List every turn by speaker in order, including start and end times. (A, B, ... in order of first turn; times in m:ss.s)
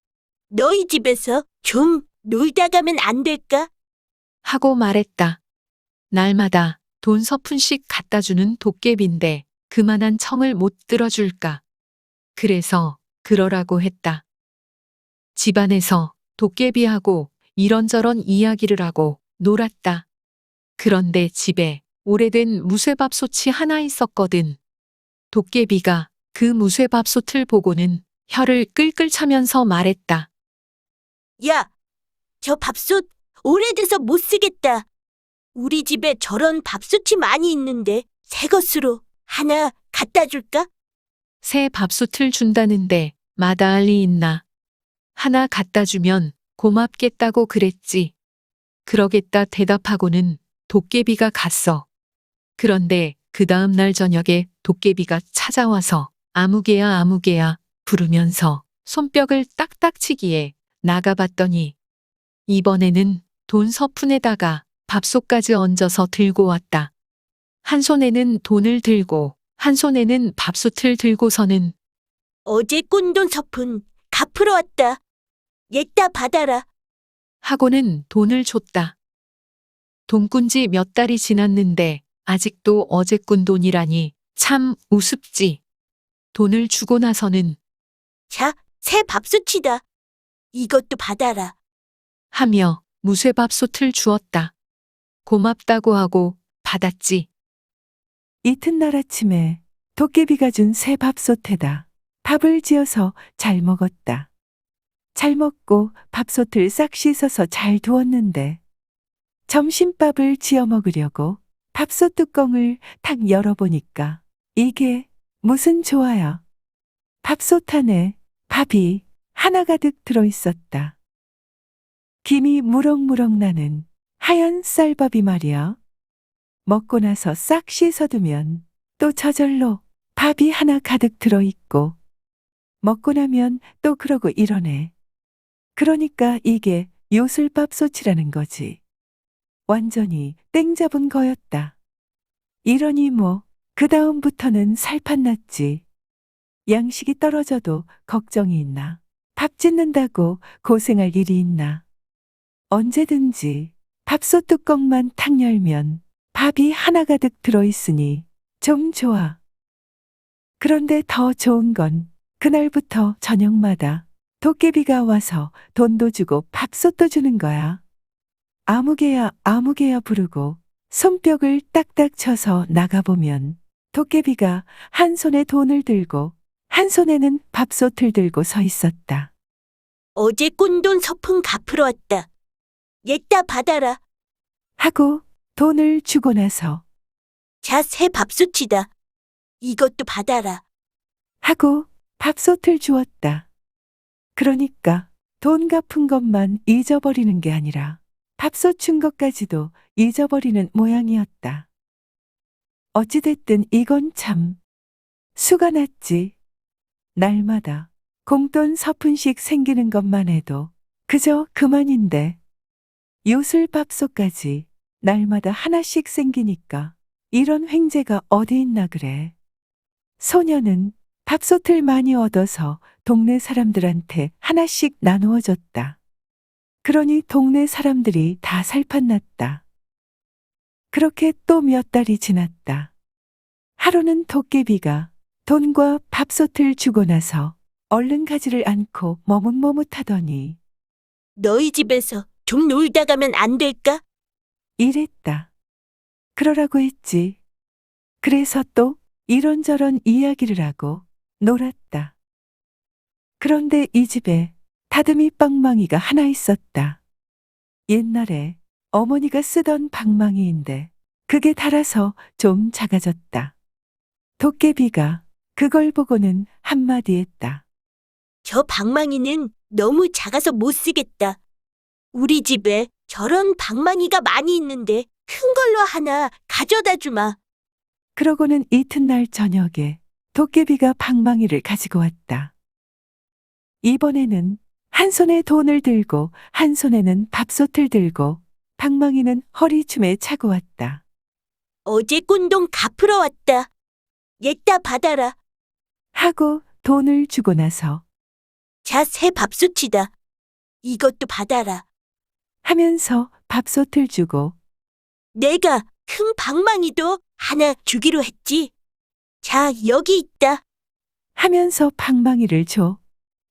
0:00.5-0:03.7 A
0:04.4-0:05.4 B
0:06.1-0:11.6 B
0:12.3-0:14.2 B
0:15.3-0:20.1 B
0:20.8-0:24.6 B
0:25.3-0:30.3 B
0:31.4-0:31.7 A
0:32.4-0:34.9 A
0:35.5-0:40.7 A
0:41.4-0:44.4 B
0:45.2-0:48.1 B
0:48.8-0:51.9 B
0:52.6-1:01.7 B
1:02.5-1:06.9 B
1:07.6-1:11.7 B
1:12.4-1:15.0 A
1:15.7-1:16.6 A
1:17.4-1:19.0 B
1:20.1-1:25.6 B
1:26.3-1:27.6 B
1:28.3-1:29.8 A
1:30.5-1:31.6 A
1:32.3-1:34.5 B
1:35.2-1:37.3 B
1:38.4-1:44.3 C
1:45.1-1:48.6 C
1:49.5-1:56.4 C
1:57.2-2:01.0 C
2:02.2-2:05.8 C
2:06.6-2:12.0 C
2:12.8-2:14.9 C
2:15.8-2:18.8 C
2:19.7-2:21.8 C
2:22.6-2:25.8 C
2:26.7-2:31.8 C
2:32.7-2:39.4 C
2:40.6-2:47.8 C
2:48.7-2:59.3 C
3:00.2-3:02.3 A
3:03.0-3:04.0 A
3:04.8-3:06.8 C
3:07.6-3:08.9 A
3:09.6-3:10.6 A
3:11.4-3:13.5 C
3:14.4-3:21.7 C
3:22.9-3:24.6 C
3:25.4-3:26.4 C
3:27.2-3:32.4 C
3:33.2-3:39.3 C
3:40.2-3:46.0 C
3:46.8-3:49.6 C
3:50.9-3:52.9 C
3:53.8-4:00.6 C
4:01.4-4:04.0 A
4:04.8-4:05.5 C
4:06.4-4:07.4 C
4:08.2-4:12.1 C
4:13.4-4:17.0 C
4:17.9-4:23.5 C
4:24.4-4:27.6 C
4:28.4-4:31.4 A
4:32.1-4:37.4 A
4:38.2-4:42.5 C
4:43.8-4:51.0 C
4:51.8-4:53.7 A
4:54.4-4:55.4 A
4:56.1-4:58.0 C
4:58.8-5:00.1 A
5:00.8-5:01.8 A
5:02.6-5:04.6 C
5:05.3-5:08.7 A
5:09.4-5:10.6 A
5:11.4-5:13.0 C